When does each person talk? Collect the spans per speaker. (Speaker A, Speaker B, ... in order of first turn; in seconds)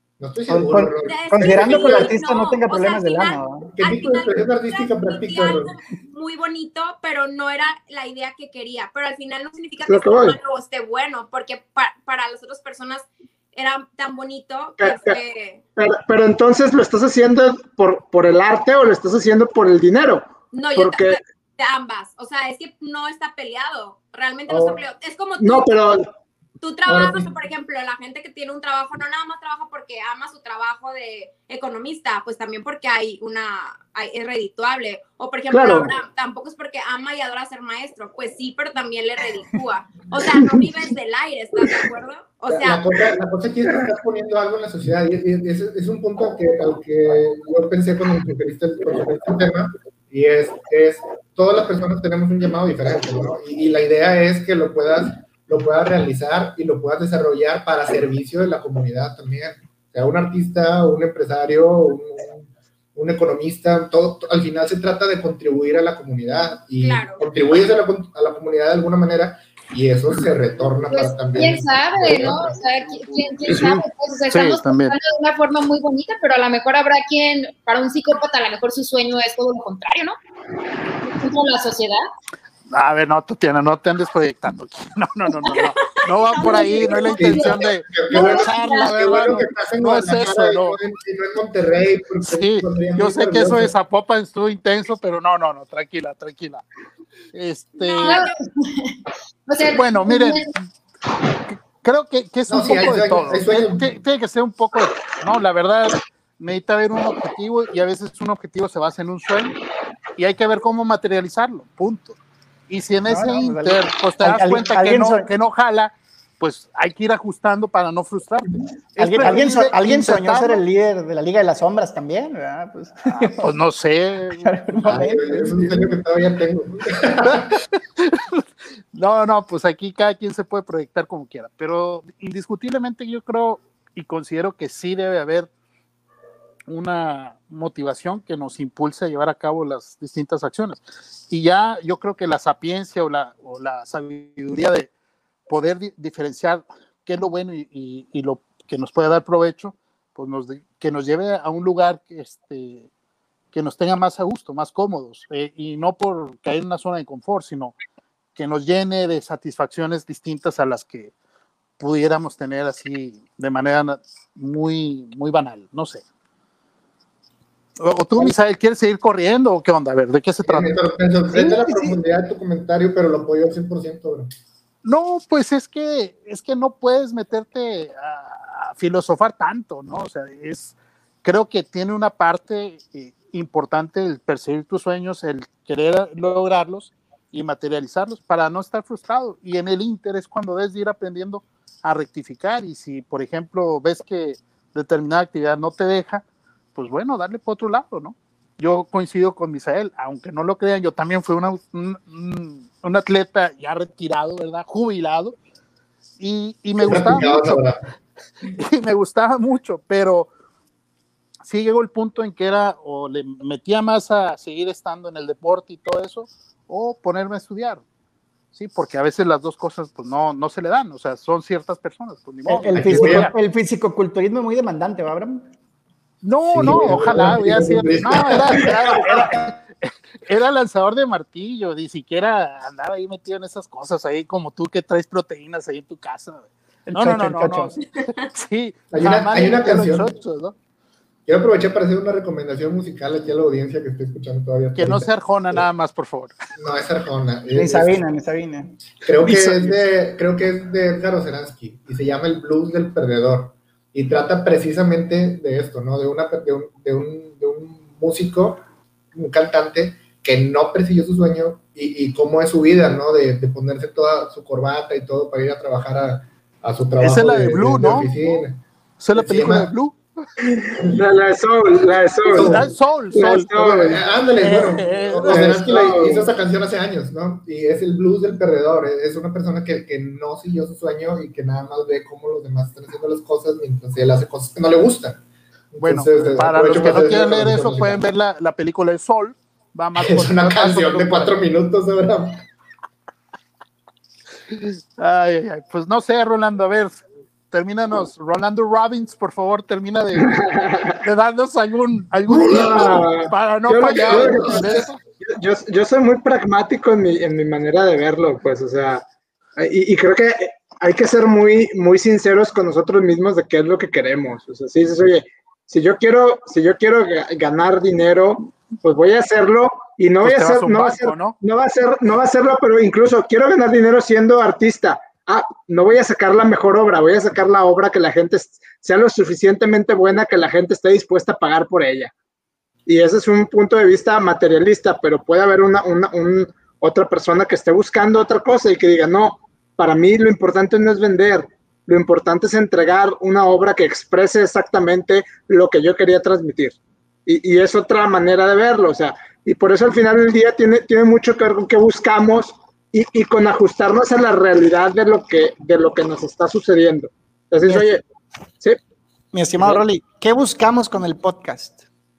Speaker A: 0.2-2.0, 3.8-5.7, 24.5-24.8, 26.9-27.3, 42.5-72.6, 87.0-93.7, 102.5-104.0, 124.8-127.6, 170.4-174.3, 206.8-207.8, 222.7-223.3, 226.5-229.4, 238.9-240.1, 241.3-245.7, 246.6-248.1, 249.0-268.6, 269.1-269.7, 272.3-285.2, 285.7-288.1, 290.0-292.4, 304.1-304.9
Speaker B: 0.5-3.7, 113.1-115.3, 119.0-123.5, 124.4-125.5, 171.3-172.0, 222.5-225.5, 236.9-237.8, 247.5-248.8, 357.7-358.0, 359.3-361.8
Speaker C: 1.1-15.6, 20.5-26.0, 26.6-42.8, 66.8-67.2, 86.0-87.0, 97.8-98.3
Speaker D: 9.9-10.4, 14.8-15.2, 15.8-21.2, 25.4-26.1, 35.5-35.9, 270.8-274.0, 275.3-276.3, 300.2-301.0, 302.4-332.1, 332.9-358.0
Speaker E: 70.9-80.2, 81.0-82.0, 85.4-85.7, 86.3-89.0, 98.0-100.5
Speaker F: 73.5-75.0, 82.7-90.8, 92.3-96.6, 97.3-98.2, 99.7-100.6, 101.5-109.6, 110.2-120.6, 123.1-124.6, 125.5-125.9, 127.2-128.4, 128.9-135.5, 136.7-144.9, 145.5-152.9, 153.5-157.8, 158.3-161.1, 161.8-166.0, 167.8-170.8, 174.8-196.2, 196.8-205.4, 206.2-207.6, 208.4-210.3, 211.4-217.8, 218.5-223.3, 226.2-240.6, 244.8-246.4, 249.3-249.7, 267.0-268.1, 269.0-270.0, 272.3-275.7, 285.8-291.3, 294.5-300.4, 301.0-305.0, 320.2-321.4